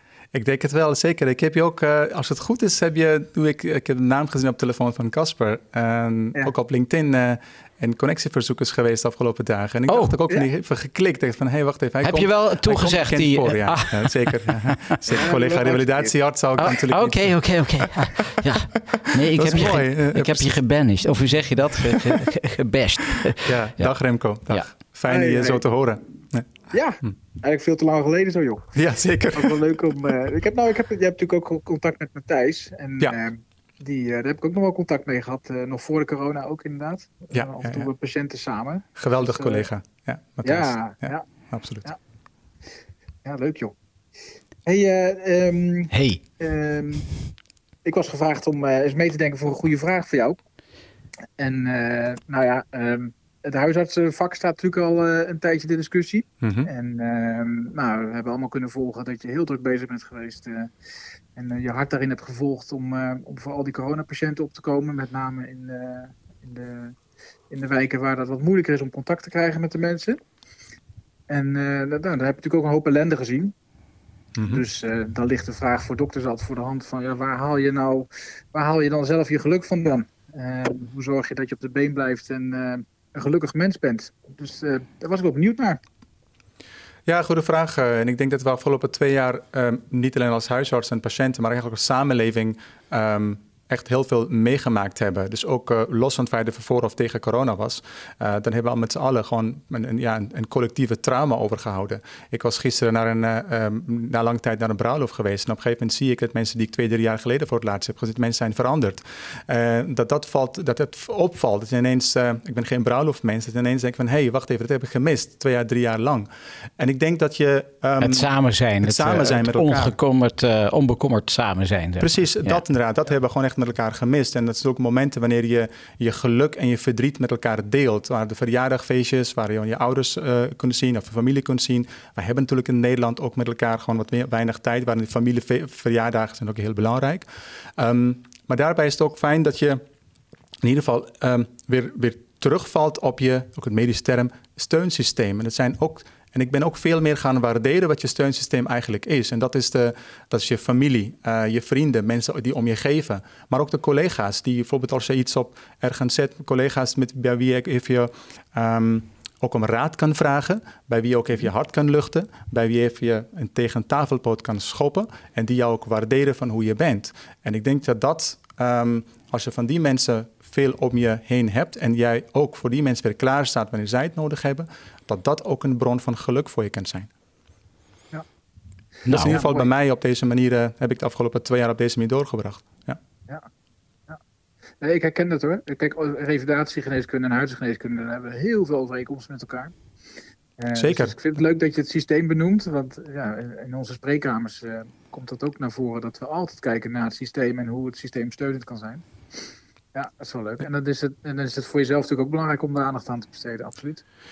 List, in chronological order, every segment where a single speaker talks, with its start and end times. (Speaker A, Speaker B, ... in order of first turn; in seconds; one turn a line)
Speaker A: 0.3-18.1
Speaker B: 9.9-10.2
Speaker B: 12.0-14.9
Speaker C: 15.1-16.1
Speaker B: 16.6-23.9
Speaker A: 18.9-20.6
Speaker A: 21.8-22.2
Speaker A: 23.4-26.5
Speaker C: 25.1-25.6
Speaker C: 26.7-28.7
Speaker A: 28.7-29.8
Speaker C: 29.3-39.7
Speaker A: 37.3-37.9
Speaker A: 39.0-41.9
Speaker C: 40.4-41.2
Speaker C: 43.2-43.8
Speaker C: 44.7-47.1
Speaker B: 45.9-46.2
Speaker C: 47.9-50.4
Speaker C: 51.4-60.7
Speaker A: 56.4-56.7
Speaker C: 61.4-67.0
Speaker C: 67.5-70.2
Speaker C: 71.3-73.5
Speaker A: 74.4-74.6
Speaker C: 74.5-85.8
Speaker A: 87.1-120.0
Speaker B: 118.0-122.6
Speaker A: 122.0-139.8
Speaker A: 140.6-177.1
Speaker B: 179.1-179.3
Speaker A: 179.1-183.0
Speaker C: 179.1-179.7
Speaker C: 184.8-189.7
Speaker C: 190.6-204.0
Speaker A: 190.8-191.2